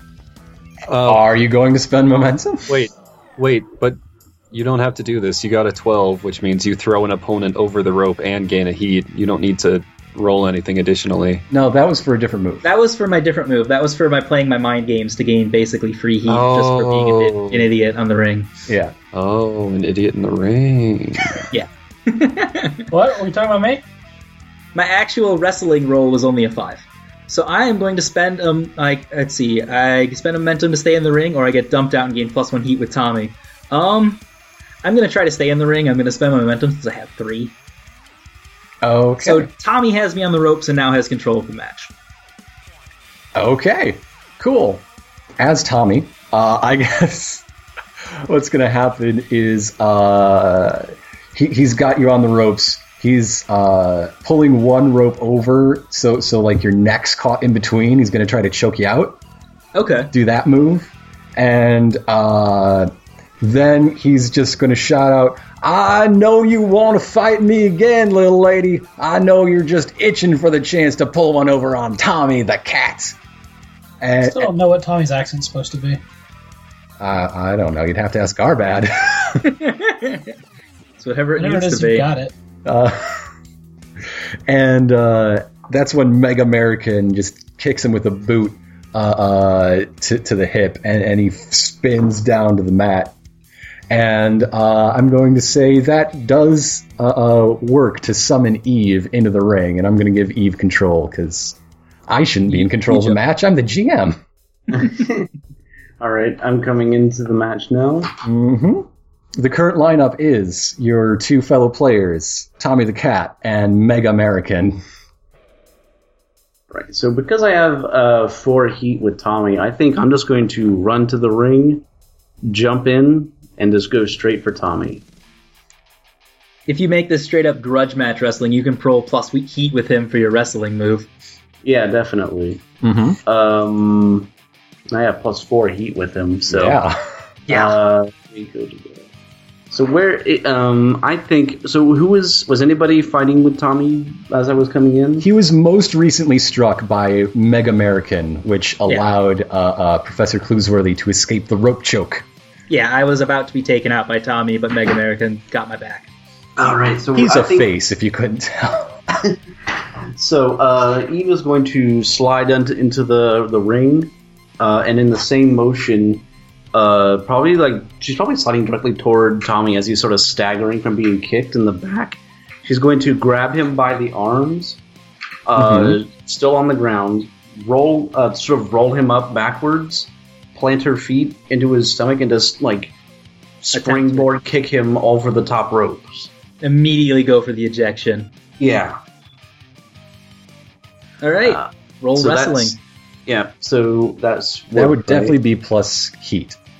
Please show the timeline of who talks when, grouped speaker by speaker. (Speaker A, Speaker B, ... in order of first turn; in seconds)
Speaker A: 0.9-1.2, 2.7-4.0, 4.5-11.4, 16.3-17.7, 19.1-21.4
Speaker B: 1.1-2.8, 11.5-12.7, 18.7-18.9, 38.8-39.5, 43.4-44.9, 45.4-47.5, 48.3-59.2, 60.1-73.2, 74.0-74.5, 77.0-79.5, 82.7-83.2, 84.5-93.2, 93.9-104.2, 108.2-114.8, 132.8-133.2, 136.5-137.0, 145.2-152.3, 157.2-159.0, 175.6-176.0, 194.8-196.6
Speaker C: 12.6-18.5, 21.5-22.8, 24.8-34.2, 34.8-37.5, 39.2-41.9, 59.8-60.1, 79.5-80.3, 81.0-82.1, 126.7-131.1, 137.5-137.8, 152.7-156.1, 183.7-184.3, 186.6-188.3, 191.2-192.8
Speaker D: 22.9-23.8, 74.2-76.0, 81.4-82.3
Speaker E: 104.7-105.3, 106.0-108.1, 116.7-121.8, 122.5-125.0, 131.6-132.6, 133.2-134.3, 134.9-136.8, 137.5-139.1, 139.7-145.3, 156.6-157.7, 160.1-174.8, 175.5-182.9, 183.6-186.3, 188.6-189.0, 191.4-195.4